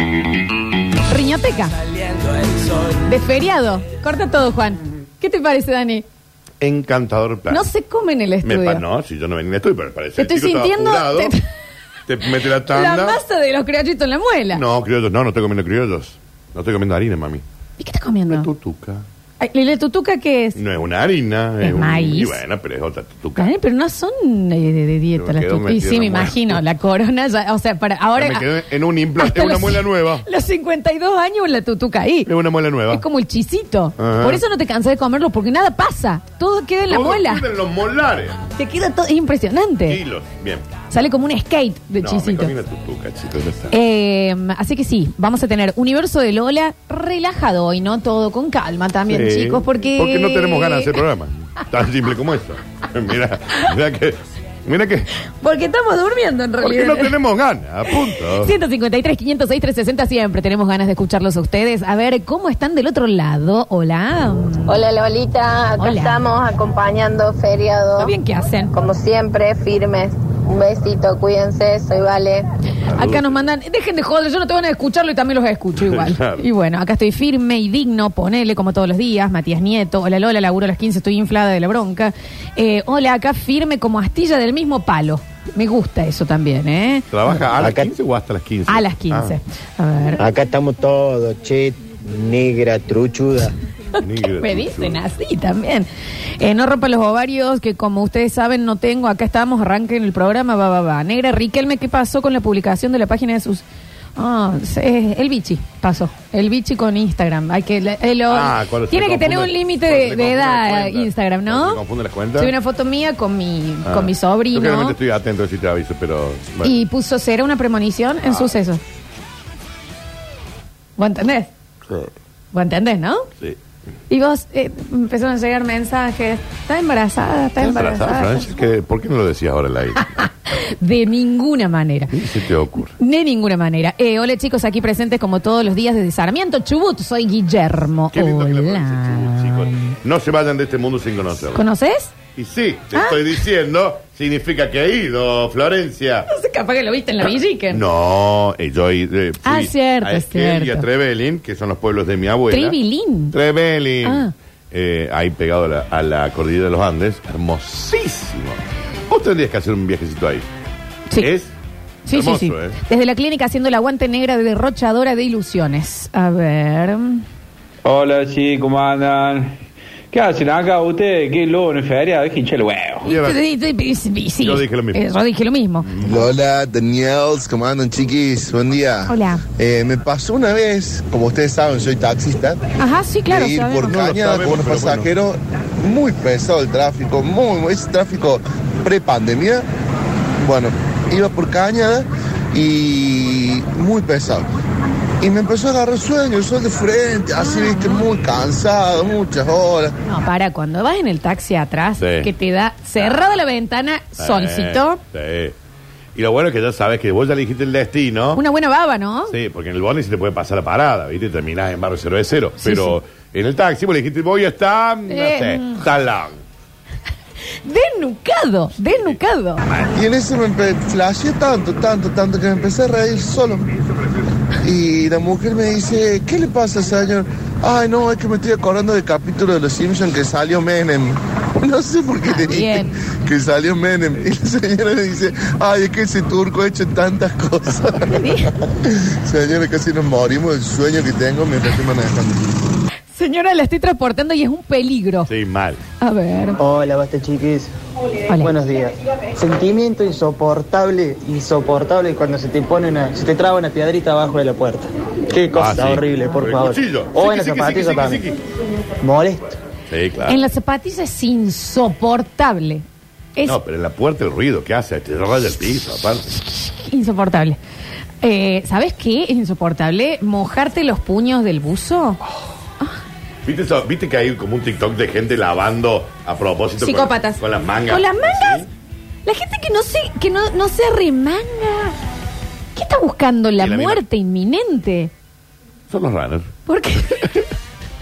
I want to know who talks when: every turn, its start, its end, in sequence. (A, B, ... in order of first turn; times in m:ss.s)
0:01.1-0:01.7 A
0:03.0-0:06.0 A
0:06.6-0:07.7 B
0:07.5-0:08.8 A
0:08.4-0:11.3 B
0:10.2-0:11.4 A
0:12.1-0:13.2 B
0:12.6-0:14.6 A
0:14.5-0:17.4 B
0:17.8-0:18.5 A
0:18.3-0:19.0 B
0:19.4-0:20.6 A
0:20.5-0:23.6 B
0:21.6-0:22.4 A
0:23.4-0:28.5 A
0:25.2-0:26.6 B
0:28.1-0:30.2 B
0:29.2-0:32.3 A
0:32.2-0:33.0 B
0:32.9-0:37.4 A
0:34.0-0:34.4 B
0:36.9-0:38.4 B
0:38.4-0:40.0 A
0:39.9-0:40.6 B
0:40.9-0:42.5 A
0:42.0-0:43.7 B
0:43.7-0:51.0 A
0:49.1-0:55.1 B
0:55.2-0:57.2 A
0:56.6-0:58.6 B
0:57.8-1:04.8 A
1:04.7-1:08.1 C
1:05.8-1:06.2 A
1:08.0-1:08.7 A
1:08.7-1:12.4 C
1:12.8-1:13.4 B
1:12.9-1:27.1 A
1:15.8-1:16.4 B
1:27.1-1:29.4 B
1:27.6-1:27.9 D
1:28.7-1:30.2 A
1:30.2-1:33.5 D
1:34.0-1:35.1 B
1:34.3-1:43.6 A
1:44.2-1:51.8 A
1:48.3-1:52.5 B
1:52.4-1:55.0 A
1:53.8-1:56.8 B
1:56.6-1:58.8 A
2:01.0-2:01.5 A
2:02.5-2:03.3 A
2:04.1-2:08.5 A
2:07.6-2:10.2 B
2:10.0-2:12.1 A
2:12.1-2:13.0 B
2:12.9-2:19.9 A
2:18.1-2:21.6 B
2:21.5-2:22.1 A
2:22.4-2:26.3 B
2:22.9-2:23.4 A
2:26.3-2:27.8 A
2:27.7-2:32.8 B
2:29.4-2:30.8 A
2:32.5-2:33.3 A
2:33.3-2:40.4 B
2:34.0-2:34.3 A
2:41.2-2:41.5 B
2:42.0-2:47.2 A
2:42.1-2:42.8 B
2:47.8-2:49.6 E
2:50.1-2:53.0 E
2:53.0-2:55.9 A
2:53.0-2:53.4 B
2:54.4-2:55.0 B
2:55.8-2:56.3 B
2:56.0-3:02.6 F
2:59.1-2:59.4 A
3:02.8-3:04.1 A
3:03.3-3:09.6 F
3:03.8-3:05.1 B
3:10.4-3:14.4 F
3:15.2-3:19.9 F
3:17.4-3:18.0 A
3:20.0-3:25.0 A
3:22.0-3:22.3 B
3:23.0-3:23.4 B
3:24.2-3:25.5 B
3:26.1-3:28.4 B
3:28.3-3:29.3 A
3:29.3-3:36.4 B
3:32.6-3:33.0 A
3:35.1-3:35.8 A
3:37.6-3:39.6 A
3:38.9-3:39.2 B
3:39.9-3:43.7 F
3:44.6-4:02.6 F
3:52.2-3:52.9 A
3:58.1-3:58.5 A
4:03.1-4:05.3 A
4:05.2-4:05.8 B
4:06.0-4:06.6 A
4:06.6-4:07.7 G
4:08.3-4:08.5 A
4:08.4-4:18.2 G
4:15.5-4:18.4 B
4:19.0-4:19.6 G
4:19.9-4:20.4 B
4:20.3-4:22.8 A
4:23.4-4:26.2 B
4:26.3-4:27.6 A
4:28.2-4:32.2 A
4:33.4-4:38.7 B
4:36.8-4:38.6 A
4:39.2-4:41.9 A
4:42.7-4:45.1 A
4:43.6-4:44.0 B
4:45.9-4:46.5 B
4:46.7-4:47.2 A